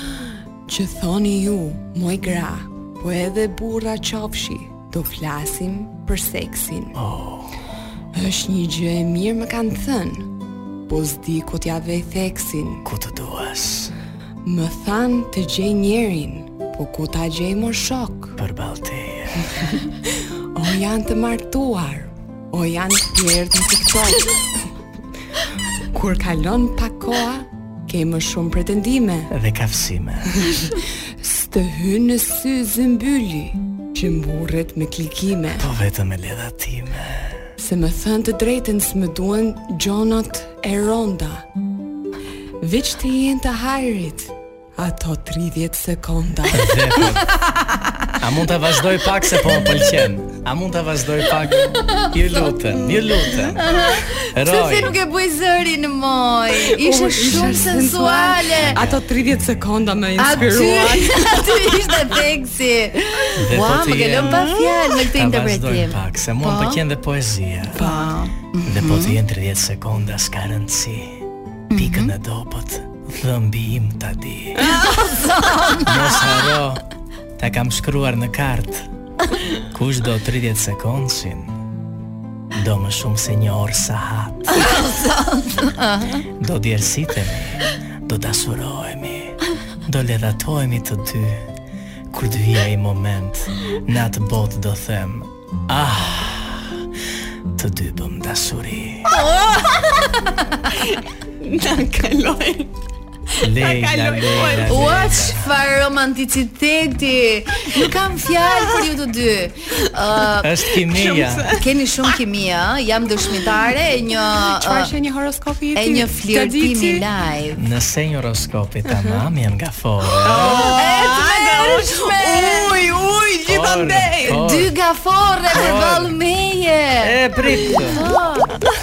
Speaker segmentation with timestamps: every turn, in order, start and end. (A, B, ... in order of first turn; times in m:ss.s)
0:00.2-0:06.9 A
0:06.9-0:07.5 B
0:08.1-0:10.3 A
0:10.9-0:12.8 A
0:12.8-0:13.9 B
0:14.4-0:18.4 A
0:18.4-0:19.5 B
0:20.1-0:24.4 A
0:25.9-0:29.3 A
0:29.3-0:30.4 B
0:30.3-0:35.6 A
0:35.6-0:37.4 B
0:37.6-0:41.4 A
0:42.6-0:47.1 A
0:46.5-0:47.3 B
0:47.3-0:47.9 C
0:48.2-0:55.0 B
0:51.7-0:52.8 C
0:53.6-0:58.8 C
0:56.6-1:02.1 A
0:58.5-0:59.4 B
1:00.2-1:06.8 C
1:03.4-1:07.8 B
1:07.8-1:08.2 A
1:07.8-1:09.2 C
1:08.6-1:11.2 B
1:11.7-1:12.1 C
1:11.7-1:14.8 B
1:14.6-1:15.1 A
1:14.8-1:16.2 C
1:15.8-1:16.8 B
1:17.4-1:18.9 B
1:19.7-1:21.5 B
1:22.5-1:24.8 B
1:24.5-1:26.2 C
1:26.4-1:31.4 B
1:32.1-1:36.8 B
1:37.5-1:39.1 B
1:39.1-1:40.6 C
1:39.4-1:39.8 A
1:40.7-1:42.7 A
1:43.3-1:44.9 A
1:43.4-1:45.5 B
1:44.7-1:50.5 C
1:48.4-1:48.8 A
1:50.4-1:51.5 B
1:50.8-1:52.2 A
1:51.5-1:54.9 C
1:54.2-1:57.0 A
1:55.7-1:57.6 C
1:57.6-2:00.9 B
1:58.9-1:59.2 A
2:00.1-2:04.4 A
2:00.4-2:02.8 C
2:03.5-2:04.7 B
2:04.2-2:08.5 C
2:05.5-2:06.1 B
2:07.0-2:08.0 B
2:07.6-2:08.0 A